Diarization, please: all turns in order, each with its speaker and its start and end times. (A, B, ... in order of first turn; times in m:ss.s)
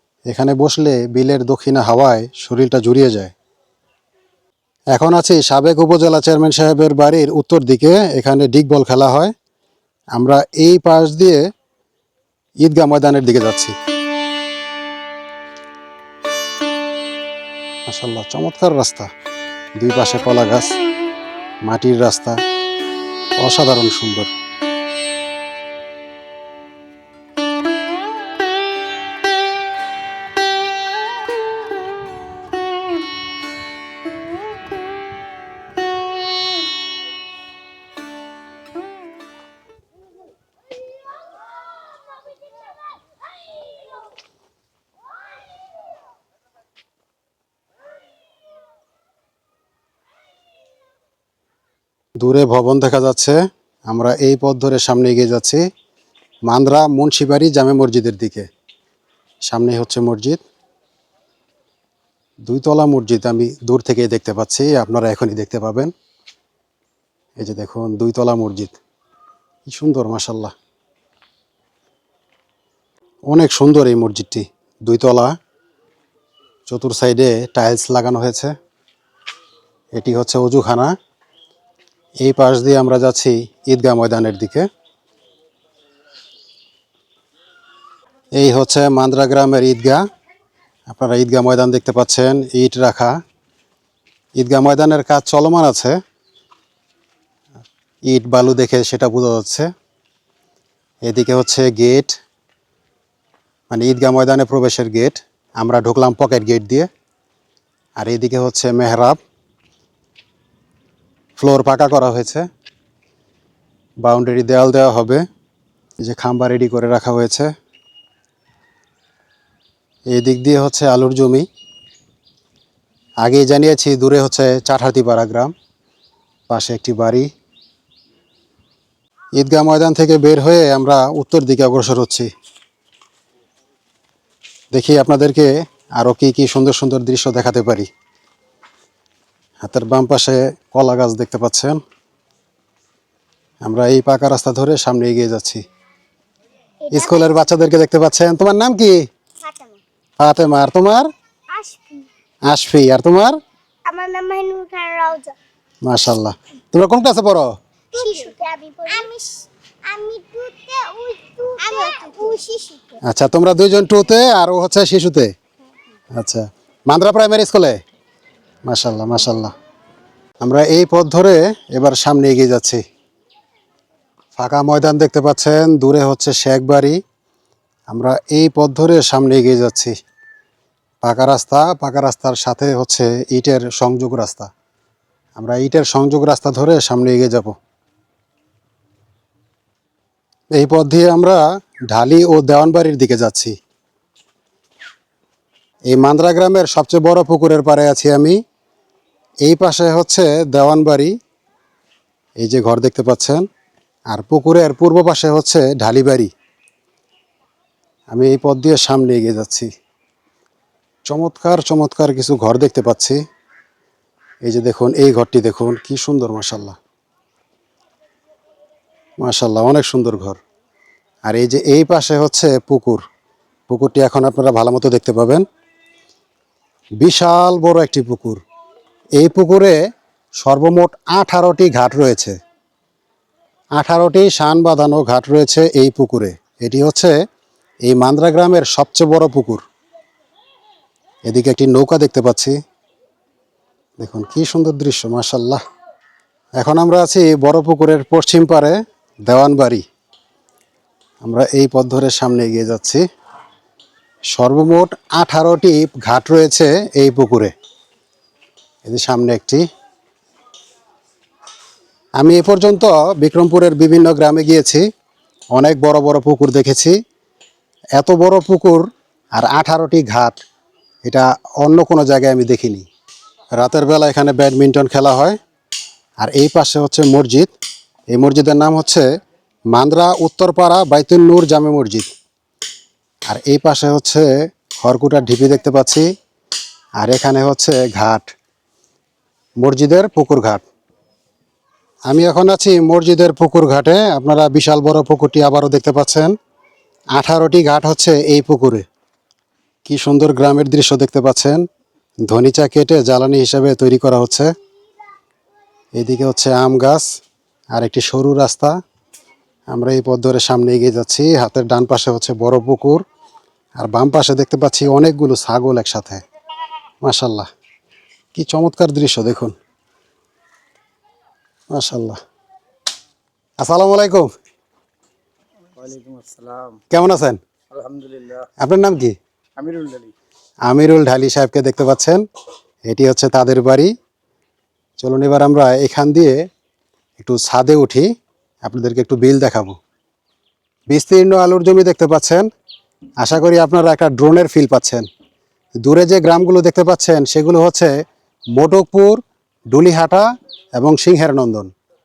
0:00.3-0:03.3 A
0:04.9-0:09.3 A
0:10.2-0:11.4 A
0:12.6-0:13.7 A
0:17.9-0:19.1 A
0:19.8-0:20.7 A
0:21.6-0:22.4 A
0:23.4-0:24.3 A
0:52.2-0:53.4 A
0:53.9-0:55.6 A
0:56.5-0:58.5 A
0:59.5-1:00.4 A
1:02.4-1:05.9 A
1:07.4-1:08.8 A
1:09.6-1:10.5 A
1:13.3-1:15.3 A
1:16.7-1:18.5 A
1:19.9-1:20.9 A
1:22.2-1:24.6 A
1:28.4-1:30.0 A
1:30.9-1:33.2 A
1:34.4-1:36.0 A
1:38.0-1:39.7 A
1:41.0-1:42.2 A
1:43.7-1:46.9 A
1:48.0-1:49.2 A
1:51.4-1:52.5 A
1:54.0-1:55.2 A
1:56.0-1:57.5 A
2:00.1-2:01.4 A
2:03.2-2:05.5 A
2:06.5-2:07.3 A
2:09.4-2:12.3 A
2:14.7-2:17.9 A
2:19.6-2:21.8 A
2:23.6-2:25.6 A
2:26.8-2:27.2 B
2:26.9-2:29.0 A
2:29.4-2:29.8 B
2:30.2-2:31.0 A
2:31.5-2:32.0 B
2:32.5-2:33.4 A
2:33.9-2:35.4 B
2:35.8-2:37.5 A
2:37.9-2:42.8 B
2:43.0-2:45.3 A
2:46.1-2:47.8 A
2:48.6-2:49.5 A
2:50.4-2:52.8 A
2:54.4-2:57.0 A
2:57.9-2:59.9 A
3:01.0-3:04.5 A
3:05.4-3:07.5 A
3:10.5-3:13.6 A
3:15.9-3:18.4 A
3:19.4-3:21.1 A
3:22.4-3:23.4 A
3:24.1-3:26.3 A
3:28.1-3:29.7 A
3:31.1-3:33.2 A
3:34.4-3:36.8 A
3:39.2-3:40.4 A
3:41.2-3:43.0 A
3:43.7-3:45.4 A
3:47.0-3:48.4 A
3:49.2-3:49.8 A
3:50.4-3:52.4 A
3:53.8-3:57.1 A
3:57.8-3:59.6 A
4:01.2-4:02.6 A
4:04.0-4:05.6 A
4:06.6-4:09.8 A
4:11.2-4:13.0 A
4:14.3-4:17.5 A
4:18.8-4:19.6 A
4:22.2-4:24.8 A
4:25.5-4:27.0 A
4:28.0-4:30.4 A
4:31.0-4:32.8 A
4:33.5-4:35.4 A
4:36.2-4:37.5 A
4:38.1-4:39.0 A
4:39.7-4:42.1 A
4:43.3-4:46.1 A
4:47.0-4:48.3 A
4:49.6-4:50.6 A
4:52.1-4:56.3 A
4:57.2-4:58.8 A
4:59.8-5:01.6 A
5:02.2-5:04.5 A
5:06.0-5:07.2 A
5:07.7-5:08.8 A
5:09.7-5:13.0 A
5:13.8-5:16.2 A
5:17.0-5:17.5 A
5:18.3-5:19.5 A
5:21.7-5:22.2 A
5:23.6-5:24.3 A
5:25.8-5:26.8 C
5:26.9-5:27.4 A
5:27.7-5:28.4 C
5:28.6-5:29.2 A
5:29.6-5:30.1 C
5:30.6-5:32.2 A
5:32.8-5:33.9 A
5:35.0-5:36.4 A
5:37.2-5:38.1 A
5:38.6-5:39.8 A
5:40.9-5:42.5 A
5:43.2-5:45.1 A
5:45.8-5:47.9 A
5:48.5-5:51.7 A